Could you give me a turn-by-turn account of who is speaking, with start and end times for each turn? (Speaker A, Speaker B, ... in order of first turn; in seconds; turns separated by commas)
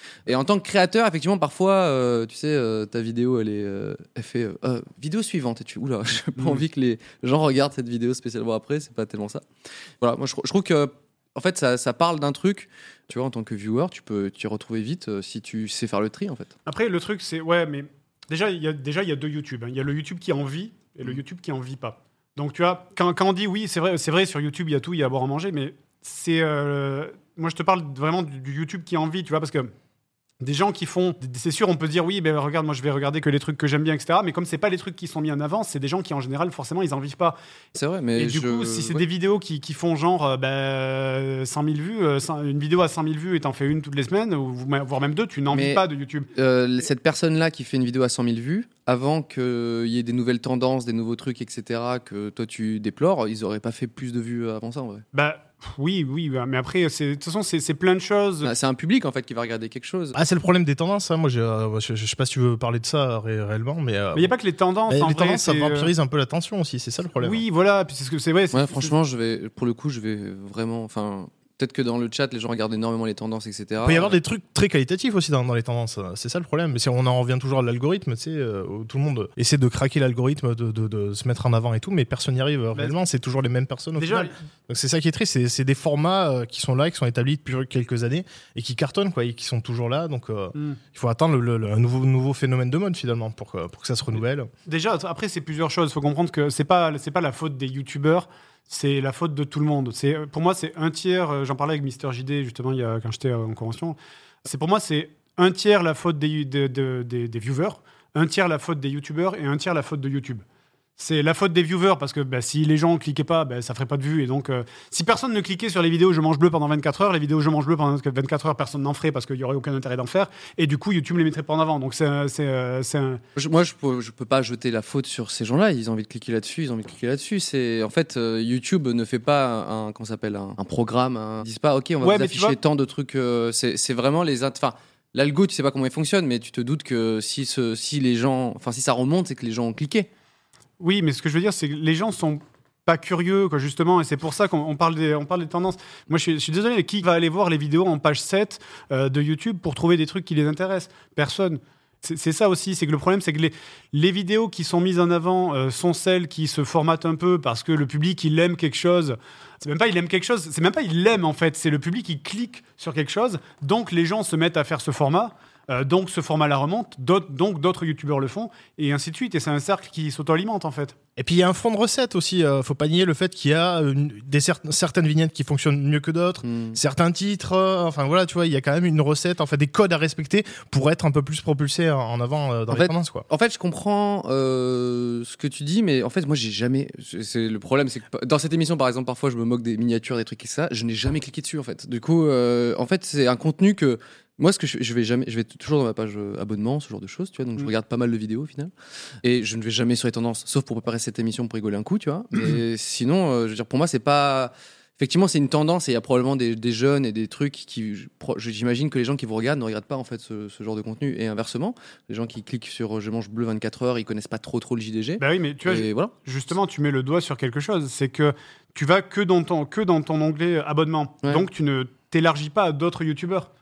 Speaker A: 0.3-9.4, Speaker A: 10.0-16.5, Speaker B: 16.7-29.7, Speaker B: 30.4-37.4, Speaker A: 37.8-39.0, Speaker B: 38.2-46.3, Speaker A: 45.5-45.8, Speaker A: 46.3-55.0, Speaker B: 55.1-58.5, Speaker A: 58.4-60.2, Speaker C: 60.1-64.3, Speaker B: 64.1-65.9, Speaker C: 64.9-67.4, Speaker B: 67.2-68.9, Speaker A: 68.5-74.2, Speaker C: 73.8-94.5, Speaker B: 84.0-84.3, Speaker B: 94.7-110.4, Speaker B: 111.0-123.2, Speaker A: 123.4-140.1, Speaker B: 132.0-132.6, Speaker B: 140.8-171.0, Speaker C: 171.2-183.3, Speaker A: 176.4-176.8, Speaker A: 182.7-198.7, Speaker A: 199.2-216.1, Speaker B: 215.2-223.5